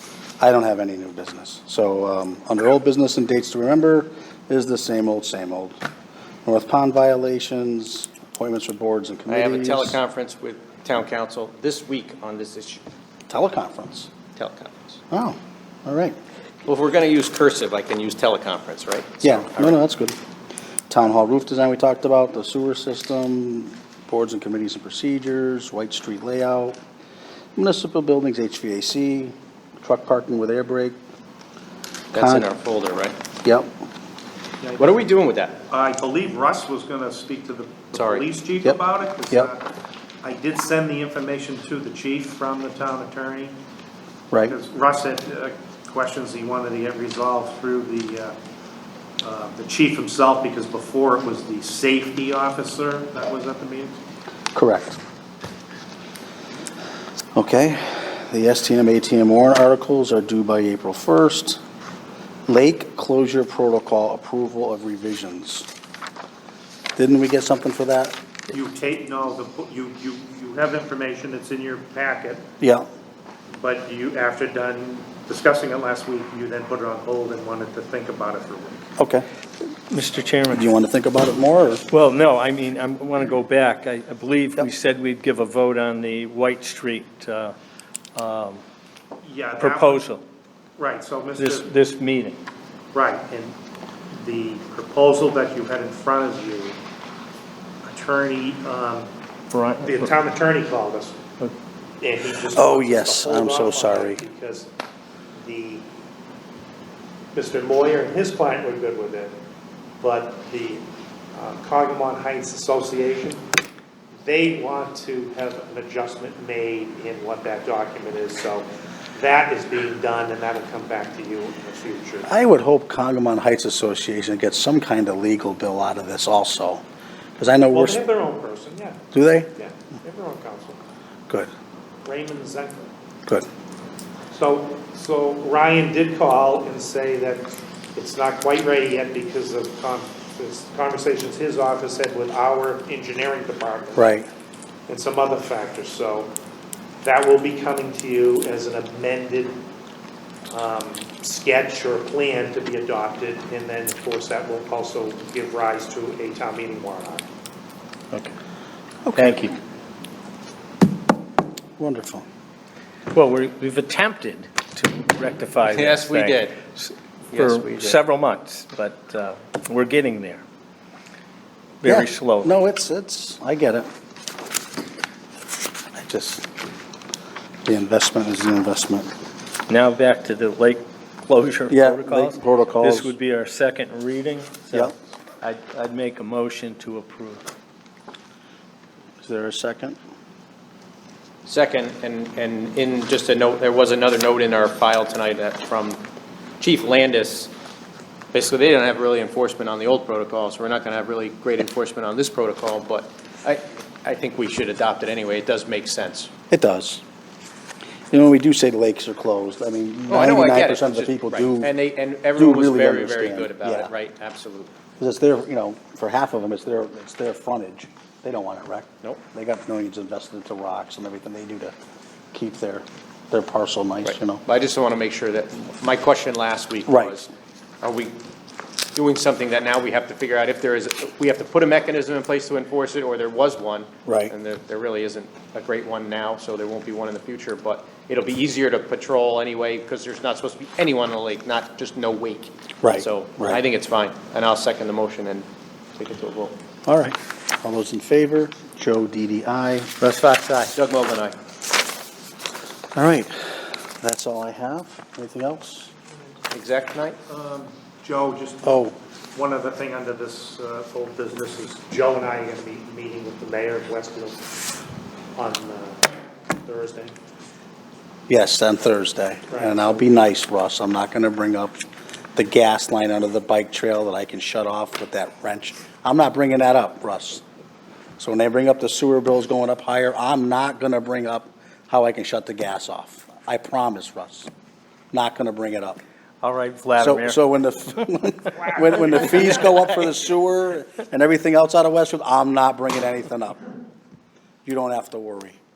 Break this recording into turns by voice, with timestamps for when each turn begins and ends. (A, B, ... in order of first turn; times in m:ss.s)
0:00.4-0:05.8 A
0:06.5-0:10.0 A
0:09.3-0:12.8 B
0:13.3-0:14.1 A
0:14.4-0:15.0 B
0:15.1-0:16.2 A
0:16.6-0:19.8 B
0:19.2-0:20.2 A
0:20.9-0:26.8 A
0:27.6-0:31.0 A
0:32.1-0:33.2 B
0:32.1-0:32.5 A
0:33.4-0:33.7 A
0:34.6-0:35.0 C
0:34.8-0:35.6 B
0:35.7-0:39.7 C
0:38.0-0:38.2 B
0:40.2-0:43.6 C
0:44.5-0:48.3 C
0:49.2-0:54.0 C
0:54.5-0:55.0 A
0:57.4-1:01.6 A
1:02.5-1:05.7 A
1:07.0-1:08.2 A
1:08.5-1:12.4 C
1:12.6-1:12.9 A
1:13.5-1:18.9 C
1:19.0-1:19.3 A
1:19.9-1:20.7 D
1:20.5-1:21.9 A
1:21.9-1:27.6 D
1:28.2-1:28.6 D
1:29.2-1:30.0 C
1:29.6-1:30.2 D
1:30.8-1:31.7 C
1:31.4-1:32.4 D
1:32.9-1:33.6 C
1:34.1-1:36.8 C
1:37.8-1:39.1 C
1:39.5-1:40.1 D
1:39.8-1:41.2 C
1:42.0-1:44.7 C
1:42.5-1:44.2 A
1:45.4-1:45.8 C
1:47.3-1:49.3 C
1:50.0-1:53.4 C
1:54.2-2:02.3 C
2:02.2-2:06.8 A
2:07.4-2:08.0 A
2:07.7-2:09.0 C
2:09.1-2:09.5 A
2:09.6-2:10.8 C
2:12.0-2:12.9 C
2:14.3-2:24.0 C
2:24.0-2:24.3 A
2:24.9-2:26.3 C
2:27.0-2:29.6 C
2:30.5-2:37.2 C
2:39.0-2:39.5 A
2:39.2-2:39.6 D
2:41.8-2:42.3 A
2:43.1-2:50.4 D
2:45.6-2:46.6 B
2:47.3-2:48.0 B
2:51.8-2:52.5 D
2:51.8-2:53.9 A
2:55.9-2:56.5 A
2:57.6-2:59.1 A
2:59.7-3:07.4 D
3:01.7-3:03.1 A
3:09.2-3:10.0 A
3:11.5-3:16.0 B
3:16.6-3:17.5 B
3:18.3-3:26.3 B
3:26.5-3:27.0 A
3:28.1-3:31.8 A
3:30.1-3:34.7 B
3:32.3-3:33.9 A
3:35.0-3:41.7 A
3:42.3-3:44.4 A
3:44.0-3:47.3 B
3:46.9-3:47.3 A
3:47.8-3:48.2 B
3:49.0-4:06.6 B
3:54.1-3:54.3 A
4:02.8-4:03.6 A
4:06.9-4:10.0 A
4:10.0-4:10.7 D
4:10.7-4:11.4 B
4:13.0-4:15.9 A
4:16.5-4:17.2 B
4:17.3-4:24.5 C
4:18.6-4:19.0 A
4:25.4-4:26.1 C
4:26.6-4:27.1 C
4:28.3-4:31.8 A
4:29.5-4:30.1 C
4:32.4-4:37.4 A
4:38.2-4:44.5 A
4:45.1-4:46.0 A
4:46.4-4:47.4 D
4:47.0-4:53.6 A
4:48.9-4:49.3 C
4:54.6-4:55.6 A